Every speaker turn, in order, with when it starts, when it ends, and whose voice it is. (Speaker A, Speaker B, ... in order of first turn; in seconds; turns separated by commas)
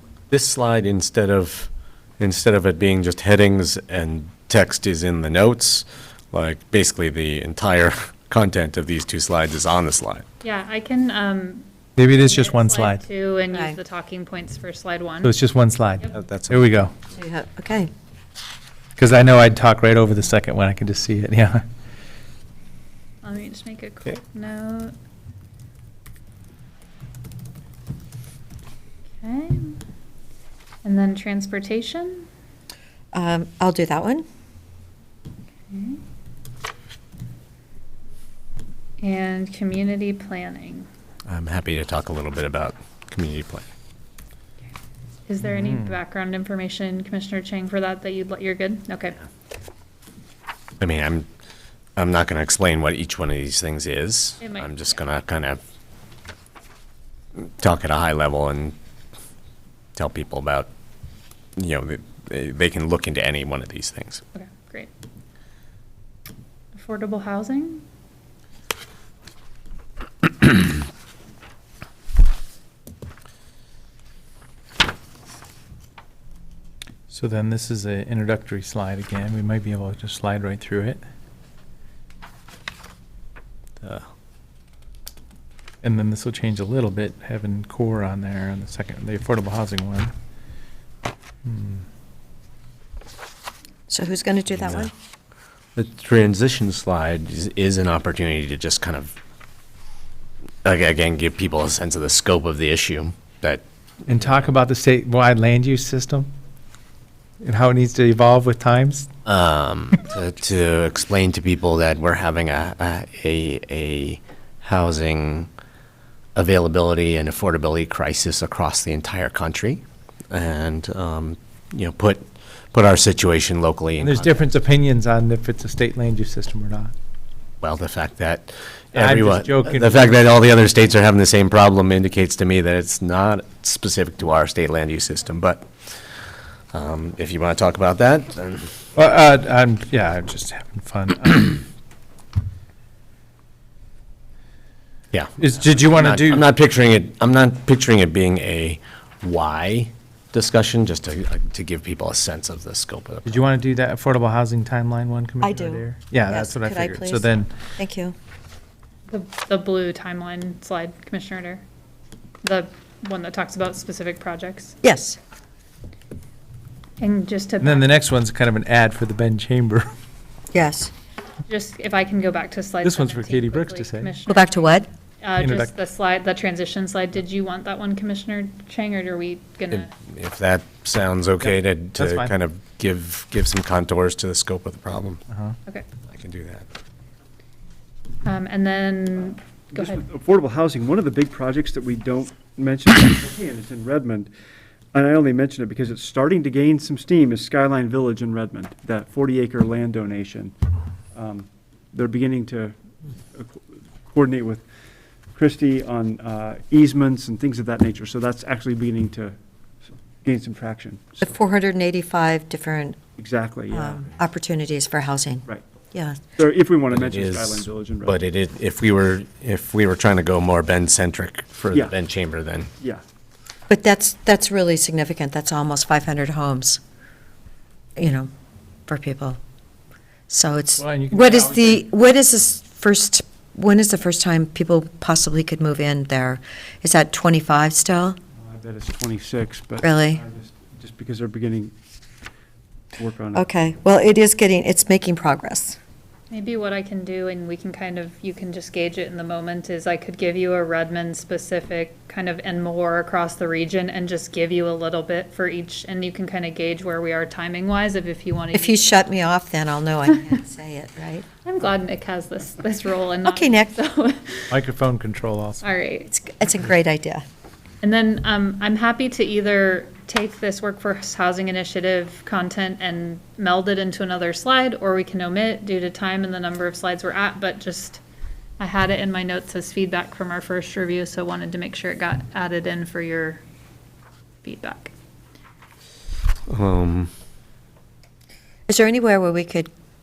Speaker A: 0.3-10.2, Speaker B: 10.4-15.3, Speaker C: 11.9-13.0, Speaker D: 13.5-13.8, Speaker C: 15.2-16.9, Speaker A: 16.1-16.6, Speaker D: 17.1-17.9, Speaker C: 19.0-21.6, Speaker B: 23.2-24.9, Speaker B: 29.2-29.8, Speaker B: 30.8-32.3, Speaker D: 33.1-34.2, Speaker B: 35.7-36.0, Speaker B: 39.0-40.9, Speaker A: 41.3-43.6, Speaker B: 45.2-49.2, Speaker C: 45.4-46.0, Speaker A: 50.8-51.2, Speaker A: 52.0-55.6, Speaker B: 54.4-55.0, Speaker A: 57.4-58.7, Speaker A: 60.0-60.7, Speaker A: 61.6-64.2, Speaker B: 64.3-64.9, Speaker B: 66.7-67.8, Speaker C: 77.1-81.0, Speaker C: 85.8-90.1, Speaker C: 91.4-91.8, Speaker D: 93.9-94.9, Speaker A: 94.6-94.9, Speaker A: 95.7-99.1, Speaker A: 100.6-103.6, Speaker C: 104.1-106.3, Speaker C: 107.4-109.1, Speaker A: 109.2-115.5, Speaker A: 116.3-124.3, Speaker C: 124.0-126.9, Speaker A: 127.6-135.7, Speaker C: 128.9-130.1, Speaker A: 136.7-138.8, Speaker C: 138.9-141.6, Speaker A: 145.1-153.5, Speaker C: 145.4-146.4, Speaker C: 153.2-157.5, Speaker D: 155.4-158.1, Speaker B: 159.1-161.6, Speaker B: 162.4-164.7, Speaker D: 164.8-165.2, Speaker B: 167.0-167.9, Speaker C: 167.6-169.9, Speaker D: 170.5-170.9, Speaker B: 171.5-179.9, Speaker C: 172.8-174.1, Speaker D: 174.3-174.9, Speaker C: 175.3-175.7, Speaker A: 179.7-185.2, Speaker C: 181.4-182.3, Speaker C: 185.3-185.6, Speaker A: 186.1-186.7, Speaker B: 188.2-190.0, Speaker E: 189.7-194.3, Speaker E: 194.9-200.5, Speaker E: 201.1-202.7, Speaker E: 203.3-204.6, Speaker E: 205.3-209.3, Speaker E: 210.2-211.3, Speaker D: 211.2-213.0, Speaker E: 213.2-214.0, Speaker D: 213.7-216.2, Speaker E: 216.3-218.2, Speaker A: 216.9-222.7, Speaker E: 222.8-223.0, Speaker D: 223.7-226.8, Speaker D: 227.9-228.3, Speaker D: 228.9-229.4, Speaker D: 230.3-238.2, Speaker C: 230.8-231.8, Speaker E: 238.4-241.7, Speaker D: 239.8-240.2, Speaker E: 242.9-243.4, Speaker D: 243.3-245.8, Speaker B: 246.3-259.0, Speaker D: 258.5-261.2, Speaker B: 261.4-264.5, Speaker D: 263.2-263.8, Speaker C: 264.5-265.6, Speaker B: 265.6-266.1, Speaker D: 266.1-267.2, Speaker B: 267.8-278.0, Speaker B: 278.6-283.4, Speaker B: 284.4-284.9, Speaker A: 286.5-287.1, Speaker D: 288.7-289.7